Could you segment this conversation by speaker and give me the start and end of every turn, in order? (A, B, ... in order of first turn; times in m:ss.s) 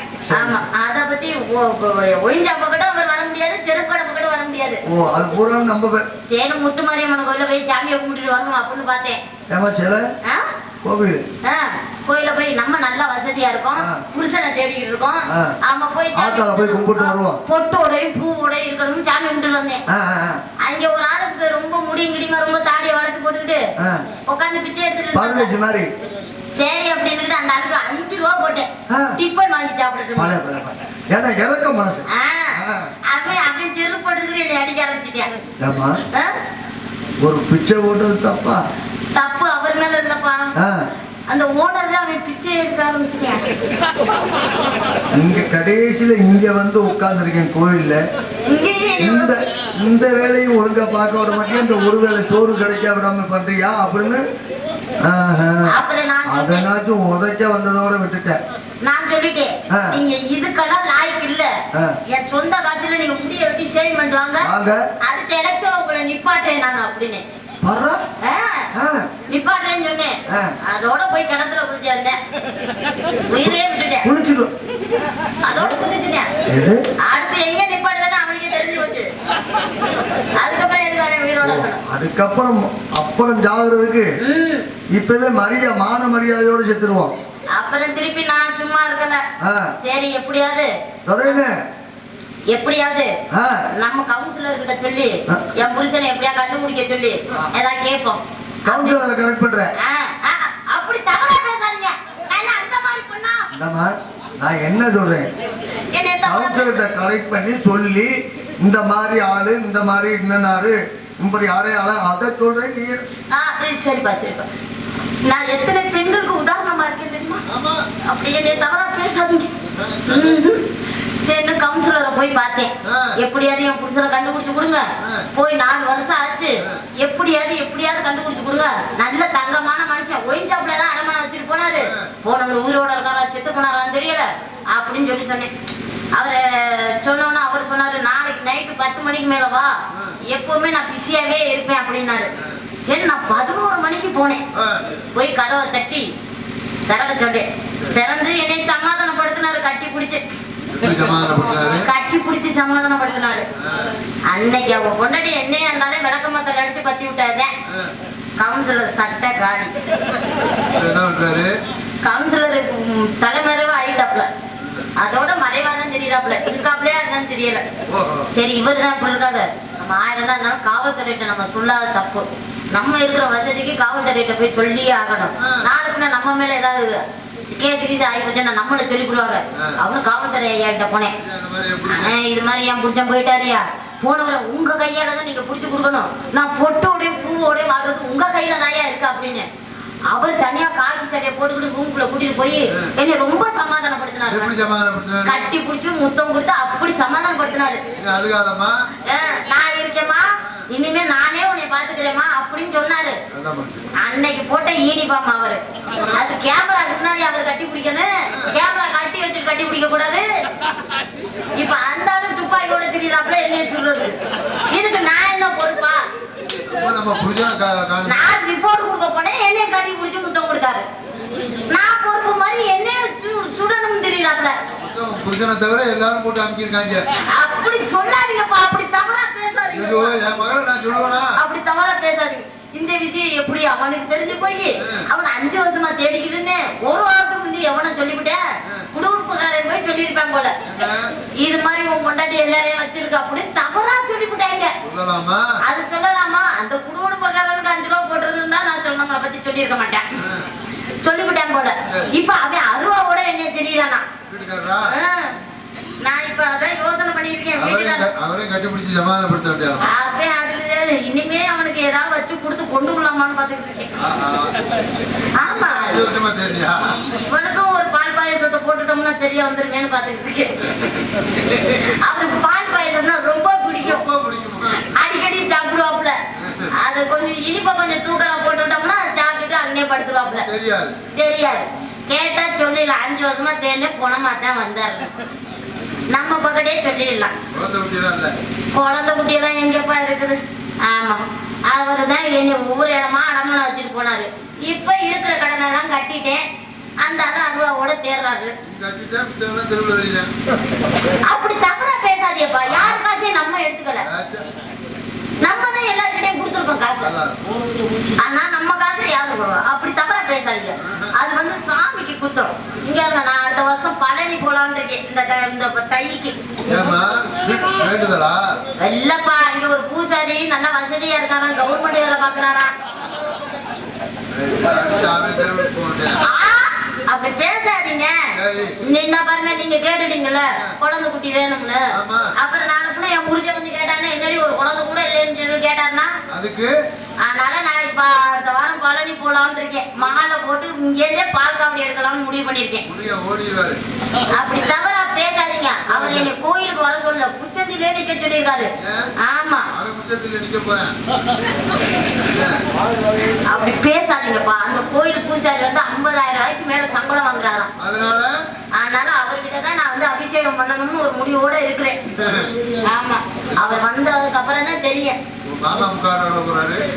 0:00.2-0:00.7 A
0:00.3-0:04.8 B
0:04.8-0:06.0 A
0:06.3-0:09.2 B
0:09.5-0:10.0 A
0:10.8-0:11.2 A
0:11.4-0:19.8 B
0:13.7-0:14.0 A
0:15.3-0:15.6 A
0:16.2-0:17.4 A
0:19.9-0:20.4 A
0:20.6-0:23.6 B
0:24.3-0:25.5 B
0:25.1-0:25.9 A
0:26.5-0:30.4 B
0:28.9-0:29.2 A
0:30.2-0:32.9 A
0:32.1-0:35.3 B
0:35.6-0:36.0 A
0:37.2-0:38.6 A
0:39.1-0:40.6 B
0:40.6-0:40.8 A
0:41.3-0:43.4 B
0:45.1-0:48.0 A
0:48.4-0:49.3 B
0:49.0-0:54.2 A
0:55.0-0:55.7 A
0:55.6-0:56.6 B
0:56.3-0:58.4 A
0:58.8-1:01.6 B
0:59.7-1:00.0 A
1:02.1-1:04.5 B
1:04.4-1:04.8 A
1:05.0-1:07.2 B
1:07.6-1:08.0 A
1:08.2-1:08.7 B
1:08.7-1:09.1 A
1:09.3-1:12.2 B
1:10.3-1:10.5 A
1:13.3-1:14.1 B
1:13.4-1:14.5 A
1:15.4-1:16.3 B
1:15.5-1:15.8 A
1:16.4-1:16.8 A
1:17.0-1:19.1 B
1:20.4-1:21.8 B
1:21.4-1:24.1 A
1:24.2-1:24.6 B
1:24.9-1:27.1 A
1:27.5-1:29.2 B
1:29.4-1:29.7 A
1:29.8-1:30.7 B
1:31.1-1:31.6 A
1:32.5-1:33.1 B
1:33.3-1:33.6 A
1:33.8-1:39.0 B
1:38.6-1:39.7 A
1:39.8-1:43.5 B
1:43.5-1:45.3 A
1:45.9-1:46.8 B
1:46.2-1:53.0 A
1:53.3-1:54.5 B
1:55.2-1:57.4 B
1:57.5-1:57.8 C
1:58.0-1:59.5 B
1:59.7-2:00.3 C
2:00.0-2:00.6 B
2:01.2-2:15.5 B
2:02.8-2:03.1 C
2:05.0-2:05.3 C
2:16.1-2:22.3 B
2:22.8-2:24.4 B
2:24.5-2:24.8 C
2:25.1-2:26.1 B
2:26.9-2:30.2 B
2:30.7-2:31.9 C
2:31.8-2:33.4 B
2:33.6-2:33.9 C
2:34.3-2:37.5 B
2:37.7-2:37.9 C
2:38.4-2:39.7 B
2:40.7-2:41.5 C
2:42.0-2:44.3 B
2:44.6-2:44.9 C
2:45.0-2:47.6 B
2:47.9-2:48.3 C
2:48.3-3:01.1 B
3:01.2-3:02.1 C
3:01.8-3:09.5 B
3:10.1-3:14.5 B
3:14.3-3:15.4 C
3:15.2-3:17.8 B
3:18.0-3:18.8 C
3:19.0-3:23.2 B
3:23.3-3:23.8 C
3:24.0-3:30.2 B
3:25.9-3:26.2 C
3:31.6-3:36.0 B
3:36.7-3:38.2 C
3:38.0-3:40.9 B
3:41.7-3:44.6 B
3:44.7-3:47.0 C
3:47.3-3:50.2 B
3:49.7-3:51.4 C
3:51.4-3:58.4 B
3:58.9-4:00.5 B
4:00.6-4:01.1 C
4:01.4-4:04.7 B
4:04.8-4:05.4 C
4:05.6-4:10.1 B
4:10.2-4:10.5 C
4:11.0-4:14.0 B
4:11.8-4:12.1 C
4:14.3-4:14.9 C
4:14.9-4:15.3 B
4:16.0-4:18.1 B
4:17.6-4:19.9 C
4:19.8-4:23.9 B
4:24.0-4:24.6 C
4:25.3-4:26.1 B
4:25.4-4:27.0 C
4:26.8-4:30.6 B
4:31.5-4:34.0 B
4:33.8-4:34.9 C
4:34.9-4:36.2 B
4:36.4-4:36.7 C
4:36.7-4:40.5 B
4:40.3-4:40.9 C
4:41.1-4:45.1 B
4:46.1-4:47.3 B
4:47.5-4:48.3 C
4:48.7-4:56.4 B
4:57.0-4:58.5 B
4:58.6-5:00.3 C
5:01.2-5:04.0 B
5:02.7-5:03.0 C
5:04.0-5:04.4 C
5:05.4-5:07.1 B
5:07.0-5:07.6 C
5:08.2-5:16.4 B
5:16.6-5:18.6 C
5:18.8-5:22.7 B
5:24.3-5:26.2 C
5:26.2-5:28.3 B
5:28.3-5:28.8 C
5:28.8-5:36.1 B
5:31.9-5:32.3 C
5:36.3-5:36.7 C
5:37.2-5:42.8 B
5:42.9-5:43.8 C
5:44.3-5:49.7 B
5:45.9-5:46.3 C
5:48.8-5:49.1 C
5:49.7-5:51.0 C
5:52.2-5:52.6 C
5:53.4-5:57.7 B
5:57.8-5:58.4 C
5:58.7-6:02.0 B
6:02.2-6:02.6 C
6:02.8-6:05.2 B
6:05.4-6:06.8 C